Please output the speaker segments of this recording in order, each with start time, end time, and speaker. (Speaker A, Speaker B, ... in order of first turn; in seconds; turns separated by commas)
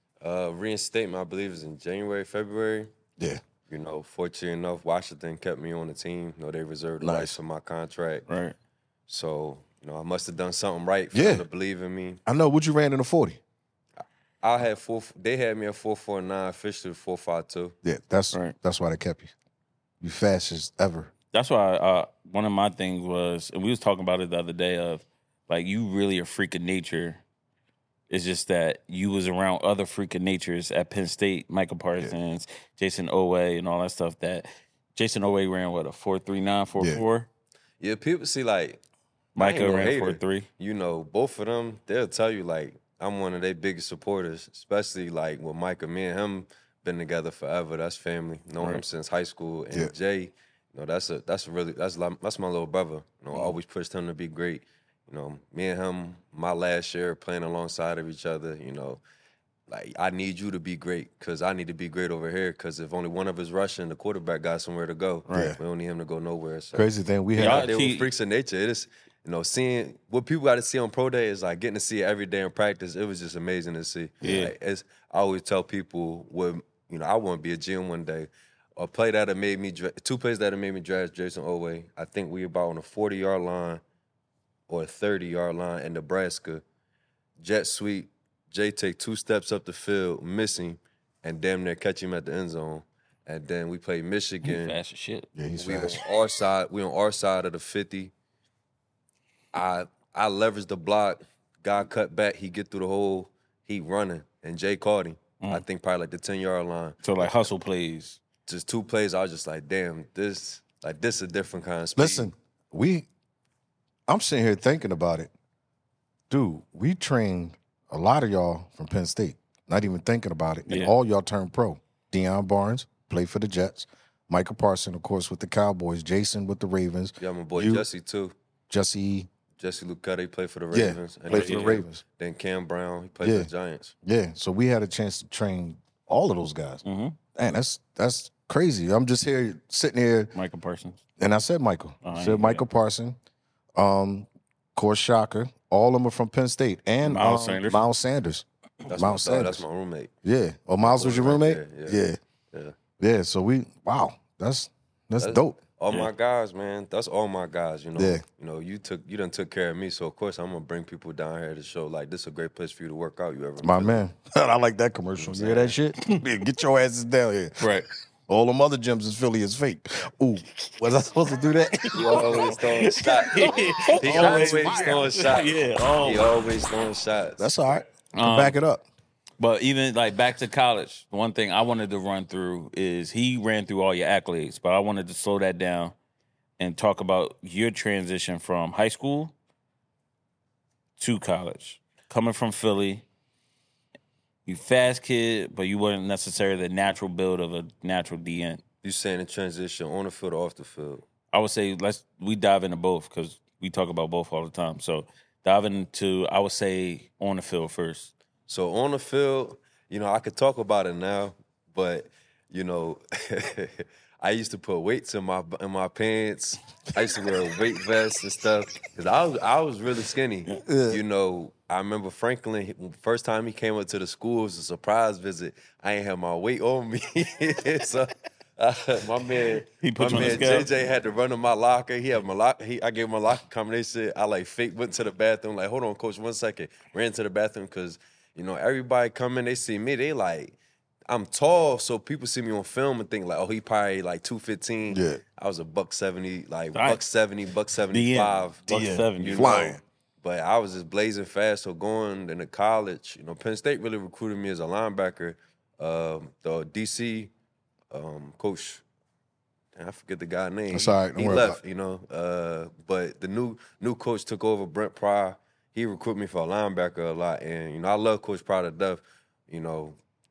Speaker A: 0.2-2.9, Speaker A: 3.7-8.3, Speaker B: 7.0-7.4, Speaker C: 8.3-8.6, Speaker A: 9.1-12.2, Speaker B: 11.1-11.4, Speaker B: 12.3-13.4, Speaker A: 14.4-17.7, Speaker B: 17.8-19.3, Speaker B: 20.0-21.1, Speaker C: 21.3-27.2, Speaker C: 28.1-37.3, Speaker B: 36.8-37.0, Speaker A: 37.8-38.8, Speaker A: 39.4-59.0, Speaker C: 39.4-40.5, Speaker A: 59.7-83.8, Speaker B: 65.3-65.6, Speaker B: 66.7-67.7, Speaker C: 67.4-68.1, Speaker C: 74.2-74.5, Speaker A: 84.7-86.6, Speaker A: 87.4-94.8, Speaker C: 94.4-95.3, Speaker B: 95.4-96.0, Speaker A: 95.5-98.1, Speaker A: 99.5-107.4, Speaker C: 107.0-108.2, Speaker A: 108.5-112.3, Speaker B: 112.0-113.1, Speaker B: 114.1-115.3, Speaker B: 116.3-127.9, Speaker C: 120.7-120.9, Speaker A: 127.2-128.3, Speaker B: 128.7-129.3, Speaker A: 129.6-133.9, Speaker B: 130.7-132.0, Speaker C: 131.3-131.8, Speaker B: 133.2-133.5, Speaker B: 134.0-136.8, Speaker C: 136.8-137.2, Speaker B: 137.3-140.3, Speaker C: 140.3-141.0, Speaker B: 141.2-143.2, Speaker C: 142.0-142.7, Speaker B: 143.8-149.6, Speaker C: 147.0-147.8, Speaker A: 148.9-150.1, Speaker B: 150.2-152.2, Speaker A: 150.8-152.0, Speaker B: 153.0-155.6, Speaker A: 155.2-164.0, Speaker B: 158.0-158.2, Speaker B: 163.6-167.6, Speaker A: 165.2-165.7, Speaker C: 167.6-167.9, Speaker B: 168.3-172.6, Speaker C: 171.9-176.3, Speaker A: 171.9-177.5, Speaker B: 173.3-175.1, Speaker B: 177.4-178.8, Speaker C: 178.2-178.6, Speaker C: 179.4-185.9, Speaker C: 186.6-189.3, Speaker C: 191.0-193.1, Speaker C: 194.5-198.6, Speaker A: 198.8-201.0, Speaker C: 201.3-208.1, Speaker A: 208.5-240.6, Speaker B: 220.6-221.0, Speaker C: 229.8-230.7, Speaker A: 241.1-257.3, Speaker B: 244.9-245.2, Speaker C: 246.7-247.0, Speaker C: 247.9-249.7, Speaker B: 248.7-249.8, Speaker A: 257.9-258.8, Speaker A: 259.8-270.0, Speaker B: 260.7-261.6